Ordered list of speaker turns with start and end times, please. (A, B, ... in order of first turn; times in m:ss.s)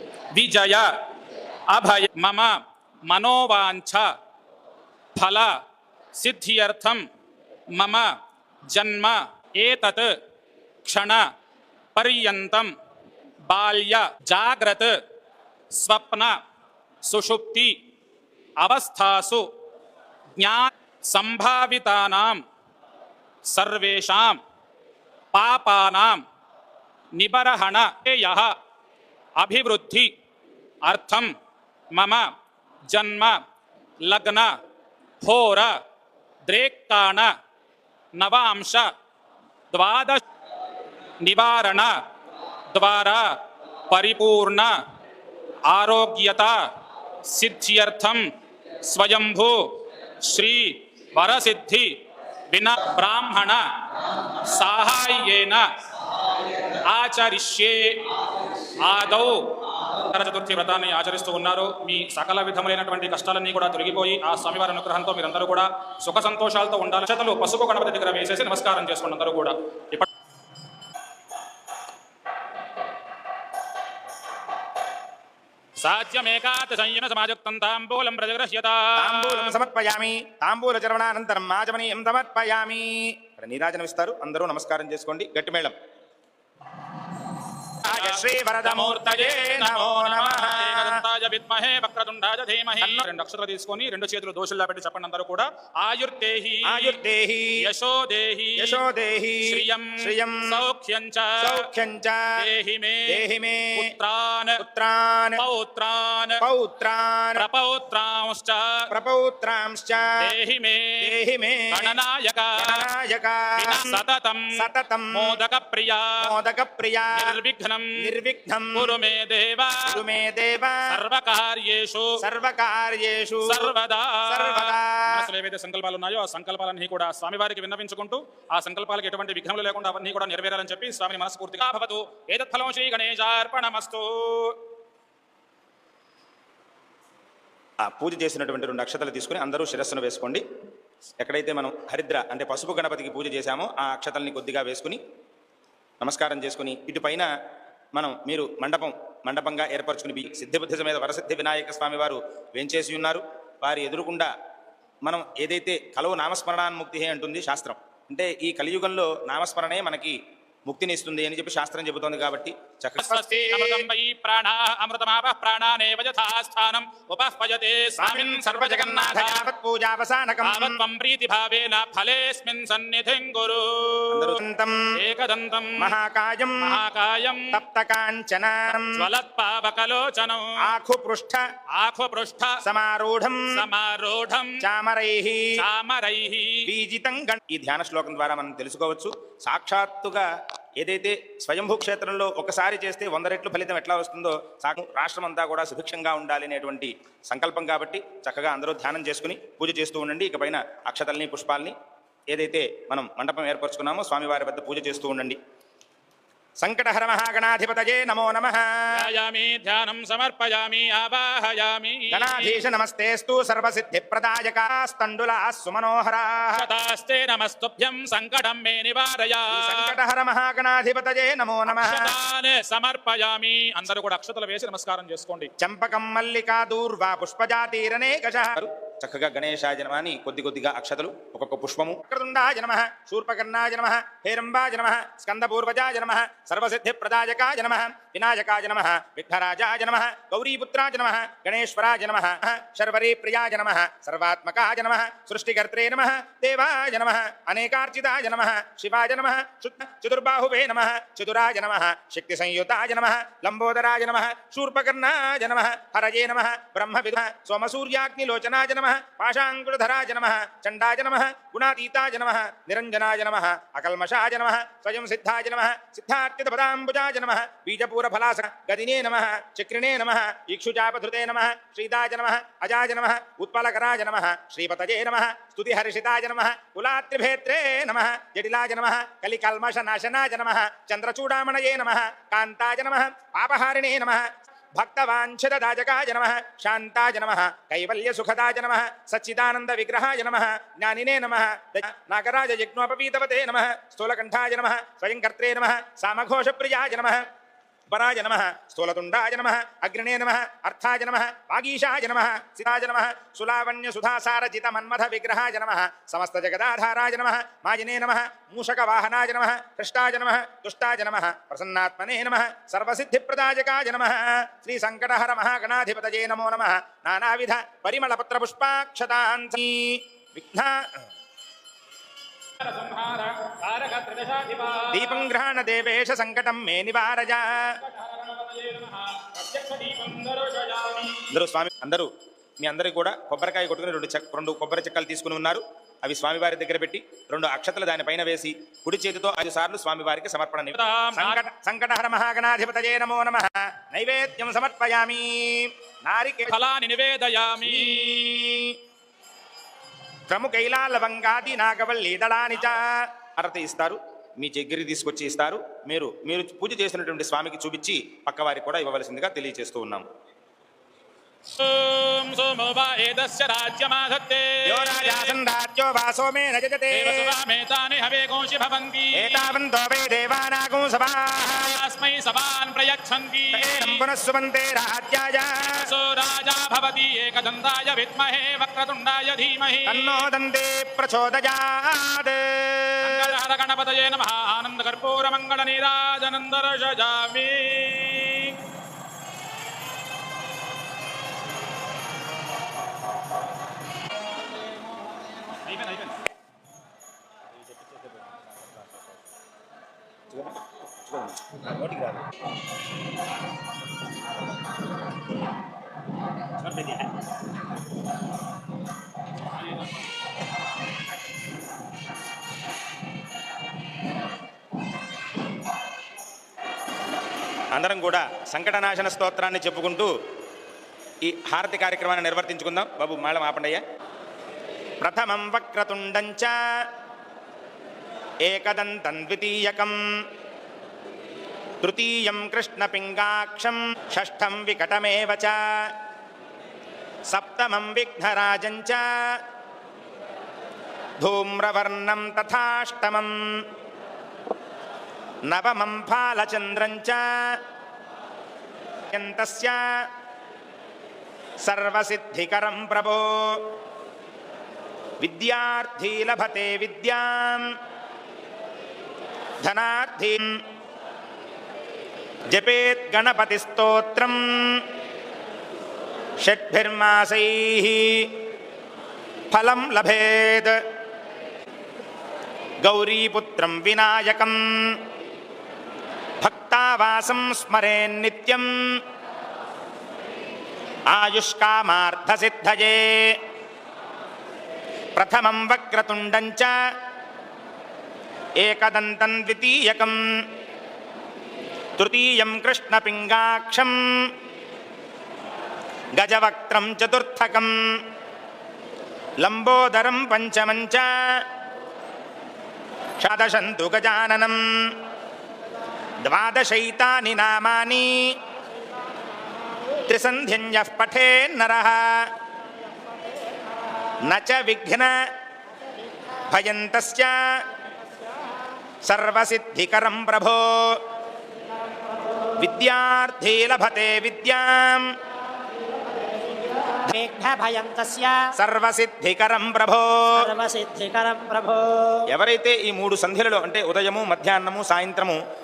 0:00.3-0:00.9 A
0:01.7-0:04.1 A
0:05.2-0:05.5 A
0:06.2-0:07.0 A
0:07.7-0:08.1 A
0:08.7-0:10.2 A
0:10.8-0:11.2 A
0:12.0-0:12.7 A
0:13.5-0:15.0 A
0:15.7-0:16.4 A
0:17.0-0:17.8 A
0:18.6-0:19.5 A
0:20.4-0:22.4 A
0:23.5-0:24.4 A
0:25.3-0:26.2 A
0:27.2-0:28.6 A
0:29.4-0:30.1 A
0:30.8-0:31.3 A
0:31.9-0:32.3 A
0:32.9-0:33.4 A
0:34.0-0:34.6 A
0:35.2-0:35.8 A
0:36.5-0:37.3 A
0:38.2-0:38.9 A
0:39.7-0:40.2 A
0:41.2-0:42.0 A
0:42.7-0:44.8 A
0:45.7-0:46.7 A
0:47.2-0:48.3 A
0:48.8-0:52.0 A
0:52.5-0:55.6 A
0:56.6-0:58.2 A
0:58.8-1:10.1 A
1:15.8-1:19.6 A
1:19.0-1:25.7 B
1:27.8-1:37.0 A
1:27.8-1:31.0 B
1:36.6-1:37.6 B
1:37.6-1:38.8 A
1:38.6-1:40.6 B
1:39.4-1:41.7 A
1:41.4-1:42.4 B
1:42.4-1:43.2 A
1:43.1-1:43.9 B
1:43.8-1:44.6 A
1:44.6-1:45.4 B
1:45.4-1:46.4 A
1:46.4-1:47.4 B
1:47.4-1:48.9 A
1:48.9-1:50.3 B
1:50.2-1:51.2 A
1:51.0-1:52.0 B
1:51.7-1:52.8 A
1:52.6-1:54.0 B
1:53.6-1:54.6 A
1:54.6-1:55.4 B
1:55.1-1:56.3 A
1:56.2-1:57.4 B
1:57.2-1:58.0 A
1:58.0-1:59.0 B
1:58.8-2:00.0 A
1:59.8-2:01.0 B
2:00.9-2:02.2 A
2:02.2-2:03.7 B
2:03.5-2:14.6 A
2:04.3-2:05.2 B
2:17.8-2:20.4 B
2:21.2-2:25.0 B
2:26.0-2:27.3 B
2:28.0-2:34.3 B
2:35.0-2:43.9 B
2:43.0-2:49.5 A
2:48.0-2:50.8 B
2:50.4-2:54.4 A
2:54.1-2:54.9 B
2:55.0-2:55.9 A
2:55.8-2:56.8 B
2:56.6-2:57.6 A
2:57.5-2:59.0 B
2:58.7-3:00.7 A
3:00.6-3:01.4 B
3:01.8-3:02.6 A
3:02.6-3:03.6 B
3:03.5-3:04.6 A
3:04.6-3:05.5 B
3:05.6-3:06.7 A
3:06.7-3:21.8 B
3:22.3-3:25.4 B
3:26.6-3:29.1 B
3:28.9-3:32.6 A
3:32.1-3:36.7 B
3:36.5-3:39.9 A
3:39.5-3:42.1 B
3:41.7-3:45.5 A
3:45.6-4:57.3 B
4:57.9-5:20.9 B
5:22.6-5:25.3 A
5:24.9-5:27.8 B
5:27.8-5:31.3 A
5:31.3-5:46.6 B
5:40.7-5:41.4 A
5:46.5-5:48.1 A
5:47.6-5:48.8 B
5:50.3-6:00.1 B
6:01.5-6:05.4 A
6:04.7-6:07.3 B
6:06.9-6:09.5 A
6:09.1-6:11.8 B
6:11.4-6:14.0 A
6:13.5-6:15.9 B
6:15.7-6:20.3 A
6:19.9-6:23.3 B
6:23.0-6:28.6 A
6:35.6-6:36.2 A
6:37.6-6:39.0 B
6:40.3-6:42.3 B
6:46.6-6:47.2 B
6:57.7-7:00.1 B
7:01.2-7:03.8 B
7:05.0-7:06.6 B
7:08.4-7:10.0 B
7:11.8-7:15.9 B
7:17.3-7:19.4 B
7:21.2-7:23.6 B
7:25.5-7:27.6 B
7:29.1-7:30.0 B
7:31.6-7:33.8 B
7:35.2-7:37.8 B
7:39.6-7:40.6 B
7:42.5-7:44.9 B
7:46.4-7:48.4 B
7:49.5-7:50.8 B
7:52.8-7:55.0 B
7:56.4-7:59.0 B
8:01.1-8:03.4 B
8:05.2-8:06.8 B
8:08.6-8:10.4 B
8:12.0-8:14.3 B
8:16.2-8:17.7 B
8:19.4-8:21.4 B
8:23.2-8:25.0 B
8:26.2-8:28.3 B
8:30.1-8:32.3 B
8:34.3-8:35.2 B
8:36.5-8:37.4 B
8:39.0-8:41.0 B
8:42.6-8:45.1 B
8:47.0-8:48.5 C
8:48.6-8:50.5 B
8:50.4-8:52.3 C
8:52.3-8:55.4 B